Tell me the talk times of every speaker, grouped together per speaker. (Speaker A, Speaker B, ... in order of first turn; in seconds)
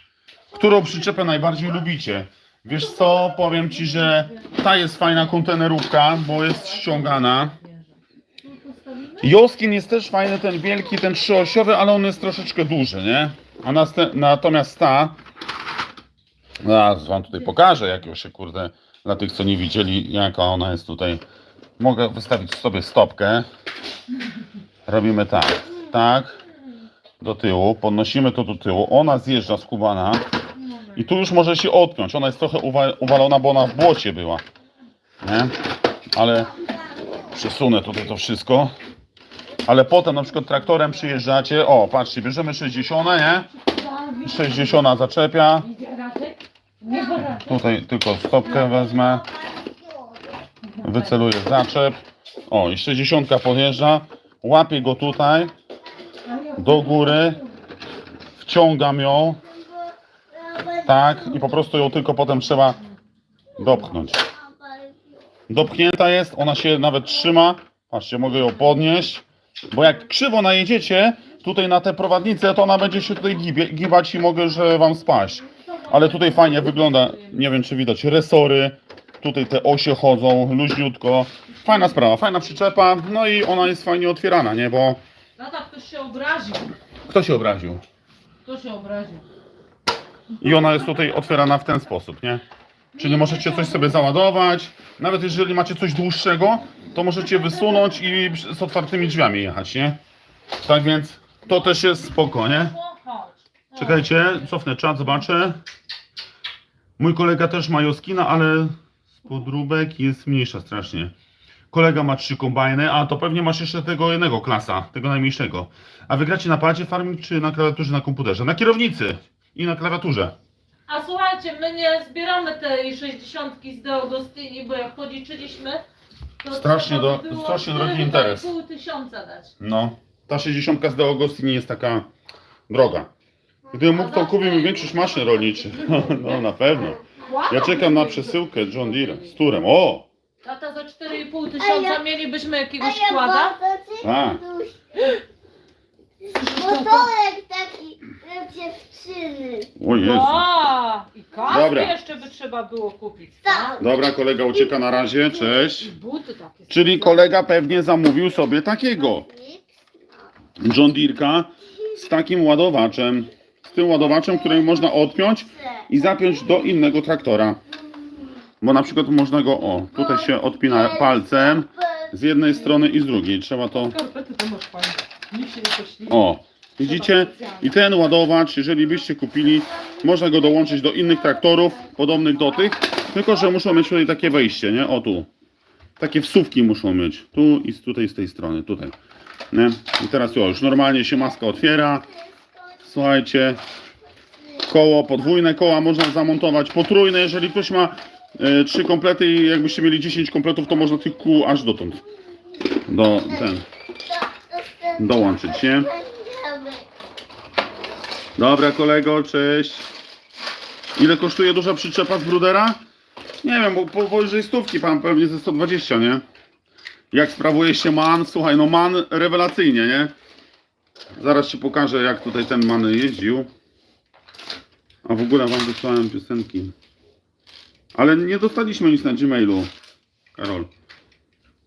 Speaker A: 0.5-7.5, 9.2-15.2, 16.6-21.2, 21.8-23.5, 24.9-26.4, 27.2-30.2, 30.9-34.4, 35.2-35.5, 36.1-36.5, 37.3-38.7, 39.7-43.5, 44.2-45.7, 47.4-49.2, 50.8-55.5, 56.6-57.4, 58.4-59.4, 60.9-62.8, 63.6-64.2, 65.5-85.0, 87.1-87.8, 90.4-92.4, 93.0-100.0, 100.6-102.8, 103.8-105.6, 107.0-111.1, 111.7-120.4, 126.5-128.5, 129.6-132.1, 132.7-133.1, 133.7-140.1, 144.0-144.4, 149.8-150.5, 151.5-151.9, 153.8-155.9, 156.7-159.3, 160.6-167.6, 168.6-174.0, 176.1-185.3, 186.0-188.9, 189.5-192.1, 192.9-193.6, 194.7-202.0, 202.9-203.7, 205.0-205.9, 208.4-209.9, 211.0-212.8, 213.4-216.2, 217.1-220.1, 221.2-223.5, 225.1-226.7, 227.9-229.7, 230.3-230.7
Speaker B: 2.9-5.1, 6.1-9.3, 30.6-31.1, 43.5-44.9, 45.6-47.6, 50.7-51.3, 56.2-57.5, 75.5-77.4, 85.4-86.7, 88.5-89.2, 92.9-94.0, 97.3-98.0, 101.5-104.5, 120.9-125.8, 126.4-129.5, 133.9-136.5, 137.2-139.3, 140.4-143.6, 146.3-147.1, 150.0-153.8, 155.5-157.3, 172.5-172.9, 173.7-176.2, 176.8-177.7
Speaker C: 36.6-37.2, 46.9-47.3, 48.3-50.5, 59.4-61.6, 64.0-65.0, 141.6-142.0, 142.8-145.2, 146.2-149.7, 151.3-151.8, 153.4-155.3, 158.7-160.3, 161.8-162.1, 163.7-166.6, 167.9-168.3, 169.9-172.2, 179.8-181.9, 190.7-192.8, 194.4-194.7, 202.0-206.9